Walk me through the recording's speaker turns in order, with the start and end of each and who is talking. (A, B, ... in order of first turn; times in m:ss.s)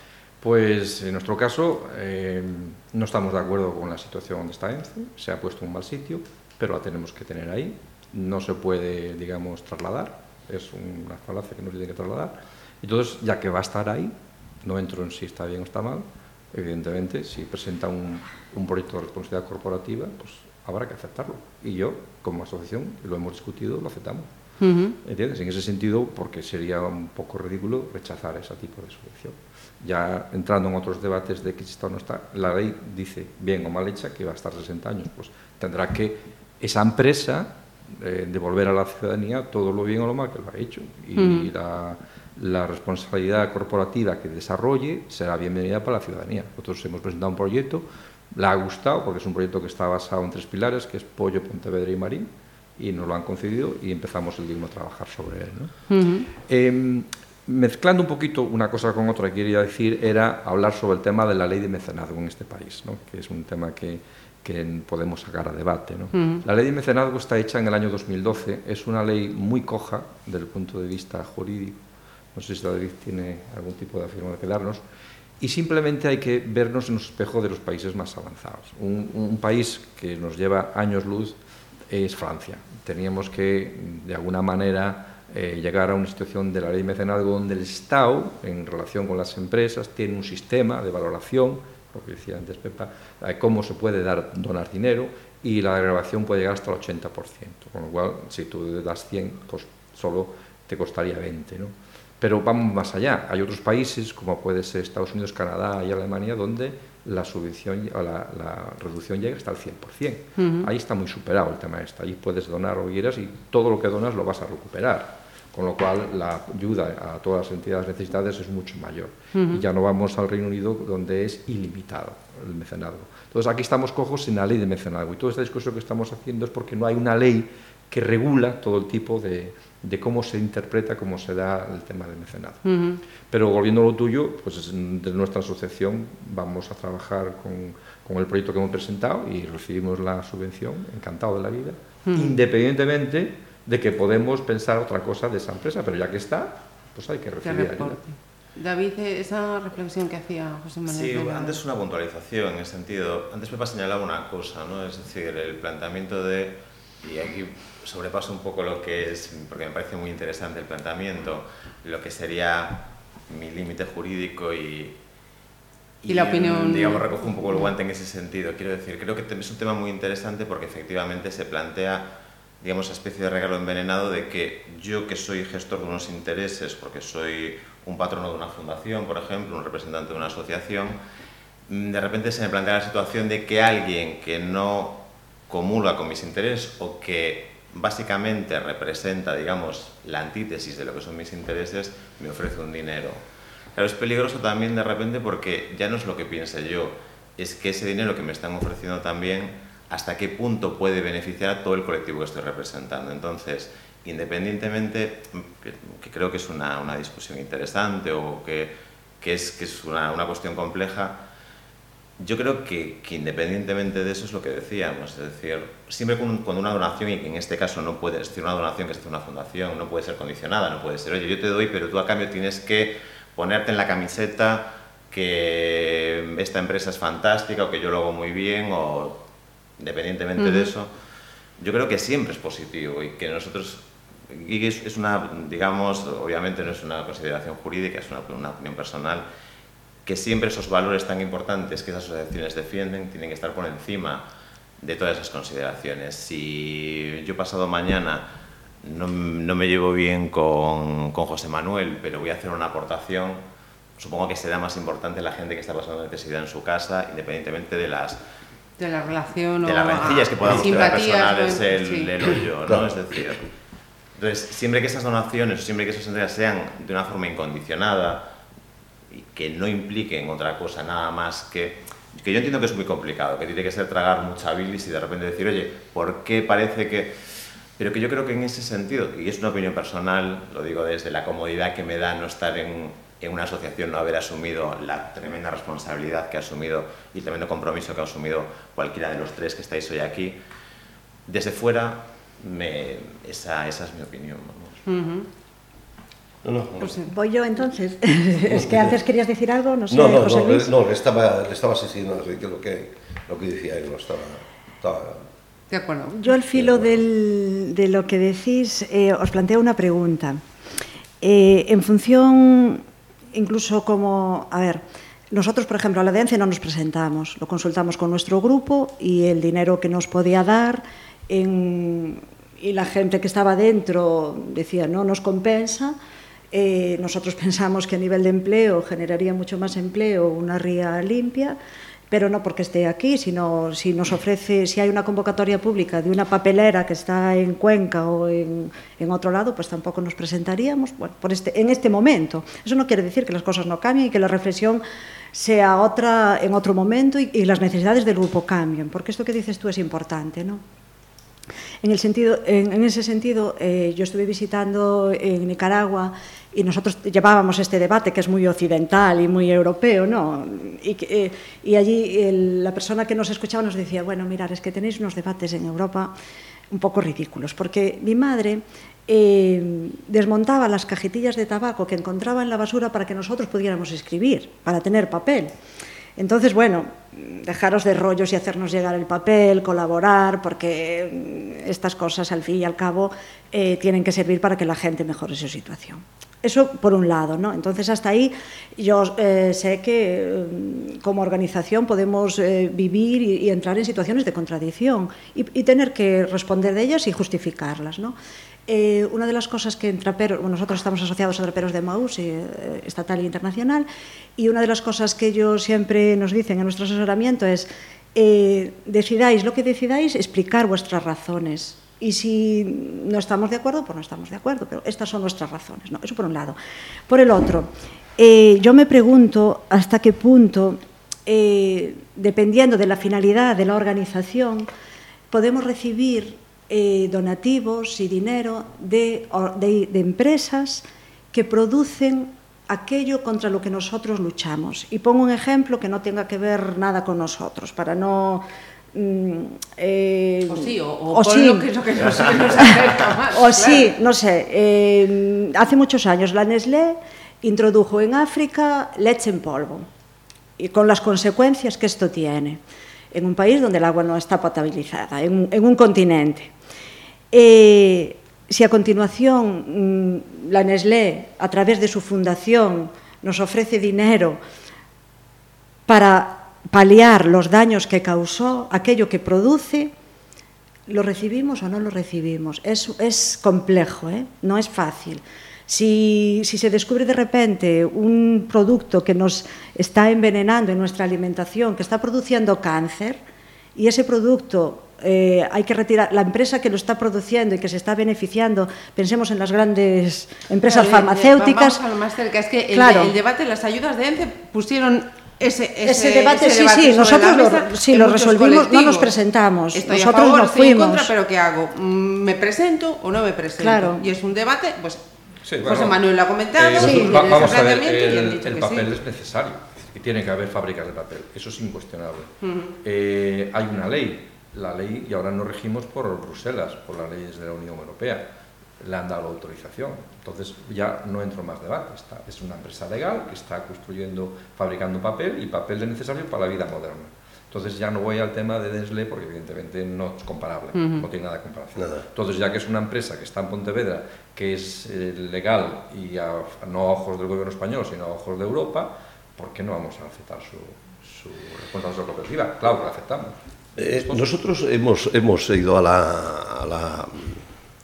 0:00.4-0:24.3 A
0:24.6-0:25.0 B
0:25.0-0:55.7 A
0:41.2-0:41.5 B
0:55.9-0:56.3 B
0:56.3-1:11.8 A
1:06.2-1:06.4 B
1:12.3-1:14.8 A
1:15.4-1:21.4 A
1:21.9-2:12.6 A
1:50.4-1:50.7 B
1:59.3-1:59.6 B
2:12.6-2:13.0 B
2:13.2-2:28.0 A
2:22.1-2:22.3 B
2:27.4-2:31.6 B
2:30.9-2:45.0 C
2:46.0-3:01.0 C
2:46.1-2:47.1 B
3:01.7-3:13.2 C
3:13.8-3:31.2 C
3:32.2-3:49.2 C
3:49.8-3:50.9 C
3:50.4-3:50.7 B
3:51.6-3:59.3 C
4:00.0-4:04.3 C
4:04.8-4:08.3 C
4:08.8-4:13.4 C
4:14.0-4:18.2 C
4:18.8-4:22.1 B
4:19.6-4:23.5 C
4:24.2-4:28.3 C
4:29.1-4:37.2 C
4:37.8-4:50.4 C
4:51.3-4:54.8 C
4:54.9-4:55.3 B
4:56.4-4:57.0 D
4:56.8-4:57.1 B
4:57.1-5:00.7 E
4:58.5-4:58.9 D
4:59.9-5:05.2 D
5:05.7-5:06.2 B
5:06.1-5:10.4 E
5:06.5-5:07.0 D
5:11.2-5:26.0 E
5:26.5-5:31.6 E
5:32.1-5:50.6 E
5:51.8-6:06.1 E
6:06.7-6:15.5 E
6:16.2-6:38.2 E
6:38.7-6:43.9 E
6:44.4-6:56.6 E
6:57.1-7:04.7 E
7:05.3-7:29.9 E
7:20.5-7:23.9 B
7:30.6-7:32.6 E
7:33.1-7:36.5 E
7:37.3-7:44.4 E
7:45.9-7:49.9 E
7:50.9-8:03.2 E
8:03.8-8:11.8 E
8:10.7-8:19.2 B
8:12.7-8:13.1 E
8:15.8-8:21.1 E
8:19.7-8:25.0 B
8:23.6-8:24.0 E
8:25.5-8:26.0 A
8:25.6-8:28.9 B
8:26.5-8:38.3 A
8:26.8-8:27.2 E
8:32.4-8:32.7 B
8:38.8-9:03.4 A
8:50.8-8:51.0 B
9:03.8-9:07.4 D
9:03.9-9:04.3 A